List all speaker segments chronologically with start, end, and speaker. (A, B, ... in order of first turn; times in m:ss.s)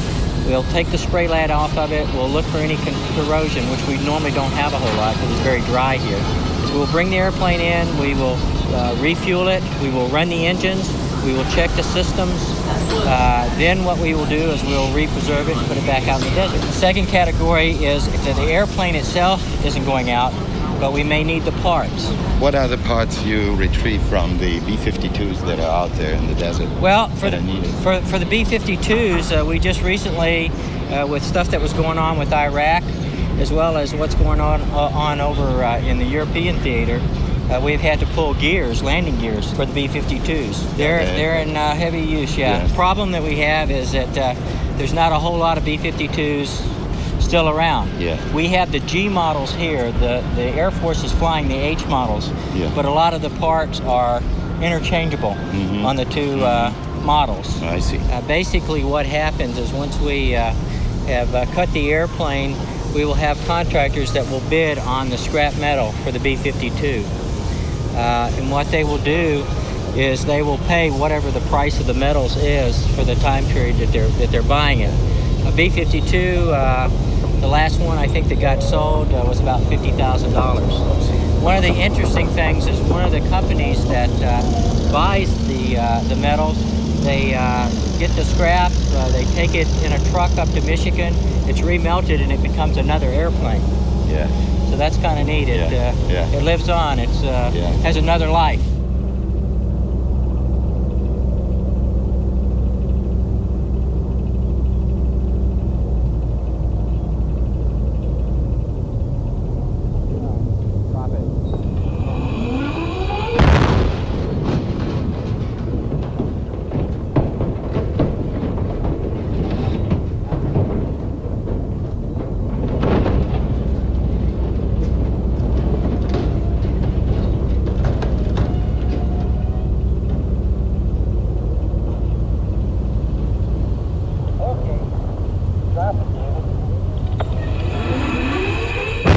0:00.4-0:22.2 A
0:22.4-0:27.8 B
0:26.8-1:07.1 A
0:40.7-0:41.5 B
0:42.4-0:42.7 B
0:47.9-0:48.3 B
0:52.5-0:52.8 B
0:55.5-0:56.8 B
0:57.6-0:58.1 B
1:07.9-1:20.8 A
1:21.4-1:33.7 A
1:34.0-1:34.3 B
1:34.6-1:38.7 A
1:35.5-1:36.3 B
1:37.5-1:37.8 B